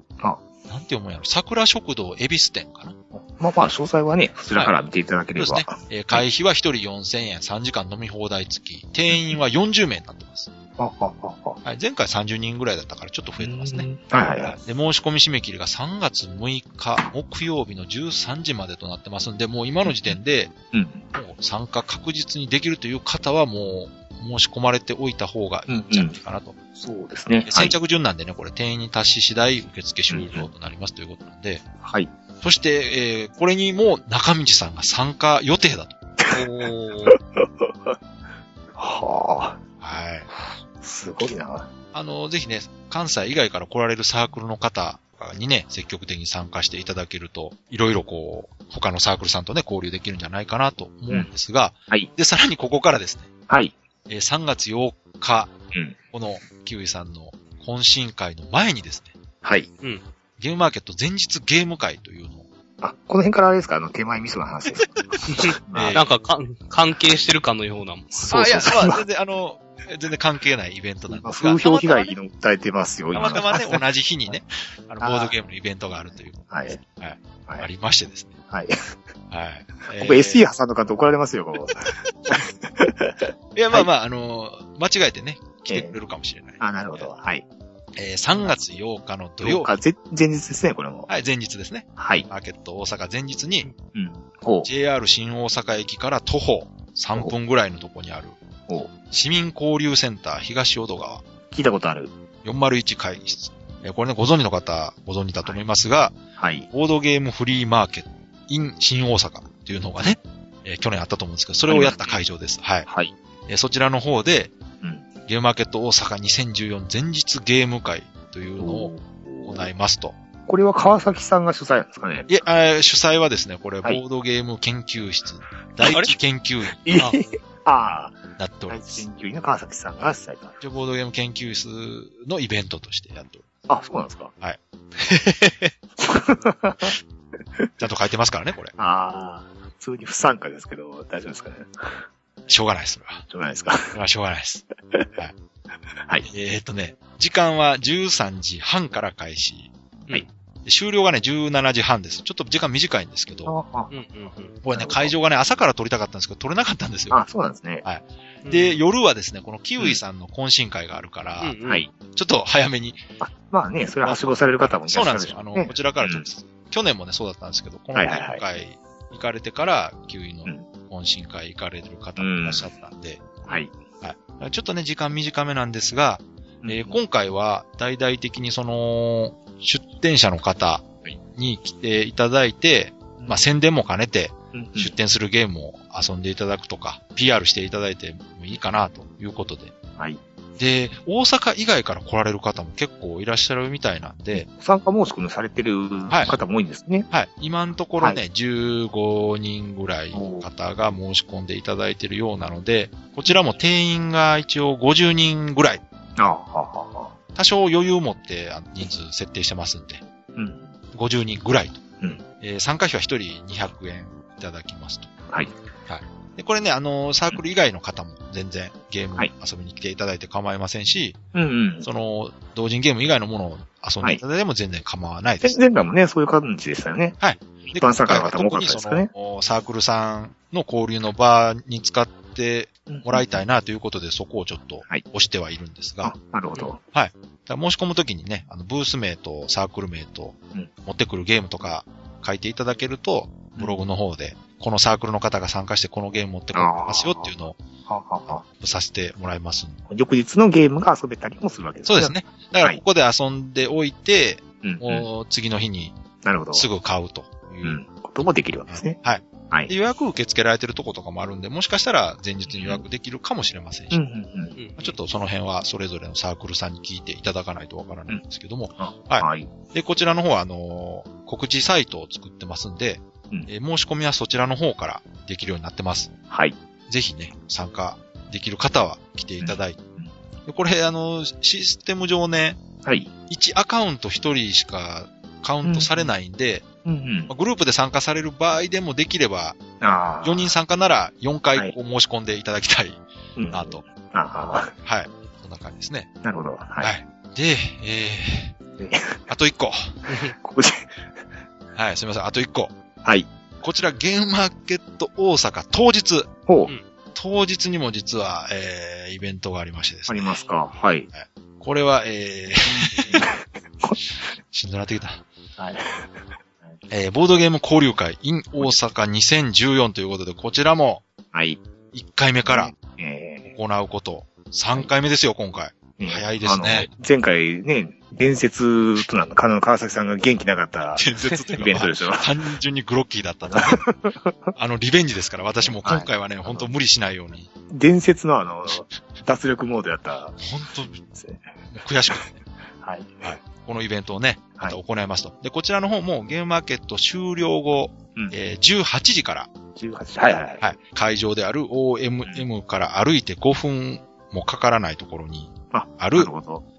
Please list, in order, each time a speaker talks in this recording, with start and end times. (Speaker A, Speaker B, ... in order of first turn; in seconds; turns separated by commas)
Speaker A: 0.7-3.0, Speaker B: 3.1-6.2, Speaker A: 5.3-10.5, Speaker B: 9.1-9.4, Speaker B: 10.8-11.6, Speaker A: 11.6-13.9, Speaker B: 13.4-14.6, Speaker A: 14.4-20.5, Speaker B: 19.8-20.2, Speaker B: 20.7-21.1, Speaker A: 21.1-26.6, Speaker B: 25.7-26.2, Speaker B: 26.8-27.7, Speaker A: 27.4-31.6, Speaker B: 30.1-30.5, Speaker B: 31.8-32.1, Speaker A: 32.4-36.0, Speaker B: 36.2-36.5, Speaker C: 36.3-37.2, Speaker B: 37.4-38.0, Speaker B: 38.8-39.6, Speaker A: 39.8-40.3, Speaker B: 40.3-41.7, Speaker A: 41.9-53.3, Speaker B: 53.5-53.8, Speaker A: 54.1-55.5, Speaker A: 56.1-59.1, Speaker B: 59.4-59.7, Speaker A: 60.4-62.5, Speaker B: 62.8-66.0, Speaker C: 65.3-68.1, Speaker A: 65.7-66.1, Speaker B: 68.1-69.0, Speaker A: 68.3-72.1, Speaker B: 71.1-74.4, Speaker A: 73.1-78.3, Speaker B: 75.0-75.3, Speaker B: 76.5-76.8, Speaker B: 78.5-78.9, Speaker A: 79.3-80.5, Speaker B: 79.9-83.9, Speaker A: 83.5-87.1, Speaker B: 85.7-85.9, Speaker B: 86.6-87.5, Speaker A: 87.9-89.7, Speaker B: 88.3-88.7, Speaker B: 89.4-91.1, Speaker A: 91.1-93.7, Speaker B: 92.0-92.3, Speaker B: 93.9-94.7, Speaker A: 94.6-98.3, Speaker A: 99.1-101.2, Speaker B: 101.5-102.1, Speaker A: 102.4-106.2, Speaker B: 106.4-106.7, Speaker A: 106.7-112.9, Speaker B: 111.7-112.2, Speaker B: 112.9-113.1, Speaker A: 113.5-114.5, Speaker B: 114.8-115.0, Speaker A: 115.2-120.1, Speaker B: 118.6-119.7, Speaker B: 120.5-122.3, Speaker A: 122.3-126.8, Speaker B: 126.8-130.6, Speaker A: 128.4-129.1, Speaker A: 130.6-133.4, Speaker B: 133.7-134.3, Speaker B: 136.0-136.9, Speaker A: 137.8-138.7, Speaker B: 138.8-142.0, Speaker A: 142.5-143.2, Speaker B: 143.3-143.9, Speaker A: 143.9-144.6, Speaker A: 146.3-149.7, Speaker A: 150.6-153.5, Speaker B: 153.4-153.9, Speaker C: 153.9-154.5, Speaker A: 154.6-157.2, Speaker B: 154.7-155.1, Speaker B: 157.1-157.8, Speaker A: 157.8-163.0, Speaker C: 158.4-158.8, Speaker C: 161.4-161.8, Speaker B: 161.6-161.9, Speaker B: 163.2-166.3, Speaker A: 164.6-173.4, Speaker B: 167.9-168.4, Speaker B: 172.2-172.7, Speaker B: 173.5-173.7, Speaker A: 174.0-189.7, Speaker B: 176.6-177.0, Speaker B: 184.5-184.9, Speaker A: 190.6-194.5, Speaker B: 194.3-197.1, Speaker A: 196.1-196.3, Speaker A: 197.1-205.8, Speaker B: 200.1-200.5, Speaker B: 206.2-207.1, Speaker A: 207.3-210.0, Speaker B: 210.3-210.8, Speaker A: 210.9-215.2, Speaker A: 215.9-221.2, Speaker B: 221.3-221.9, Speaker A: 221.8-225.6, Speaker B: 225.4-229.1, Speaker A: 227.2-236.1, Speaker B: 232.9-233.4, Speaker B: 236.0-236.8, Speaker A: 236.9-247.6, Speaker B: 243.6-243.8, Speaker B: 246.5-247.3, Speaker B: 247.8-248.4, Speaker A: 248.3-249.8, Speaker B: 249.9-252.8, Speaker A: 251.8-256.0, Speaker B: 254.6-255.1, Speaker B: 256.2-256.7, Speaker A: 256.5-257.8, Speaker B: 257.6-259.0, Speaker A: 258.7-264.0, Speaker B: 262.4-262.8, Speaker B: 263.9-264.6, Speaker C: 264.6-265.0, Speaker A: 264.8-276.1, Speaker B: 268.8-269.5, Speaker B: 276.3-276.6, Speaker A: 276.9-279.8, Speaker B: 279.4-280.1, Speaker A: 280.4-282.6, Speaker B: 282.8-283.1, Speaker A: 283.3-286.6, Speaker B: 285.6-286.1, Speaker B: 286.8-287.3, Speaker A: 287.3-289.6, Speaker B: 289.8-290.5, Speaker A: 290.2-293.8, Speaker B: 293.4-294.7, Speaker A: 294.8-296.1, Speaker B: 296.2-296.9, Speaker A: 296.8-298.6, Speaker B: 298.8-299.3, Speaker A: 299.3-300.1, Speaker B: 300.3-301.0, Speaker A: 301.7-302.7, Speaker B: 303.0-303.3, Speaker A: 303.6-306.3, Speaker B: 306.5-306.7, Speaker A: 307.1-310.4, Speaker B: 310.1-311.1, Speaker A: 311.1-313.3, Speaker B: 312.6-314.0, Speaker A: 314.5-315.2, Speaker B: 315.6-316.2, Speaker A: 316.9-321.0, Speaker B: 321.3-321.6, Speaker A: 321.9-322.7, Speaker B: 322.4-323.5, Speaker A: 323.4-326.9, Speaker B: 326.0-332.3, Speaker A: 331.0-333.8, Speaker B: 333.4-334.5, Speaker A: 334.6-337.5, Speaker B: 335.6-336.7, Speaker B: 337.7-340.4, Speaker A: 340.4-341.0, Speaker B: 340.9-341.5, Speaker A: 341.7-342.4, Speaker B: 342.8-343.4, Speaker A: 343.2-349.5, Speaker B: 349.7-350.7, Speaker A: 350.6-356.3, Speaker B: 355.7-356.6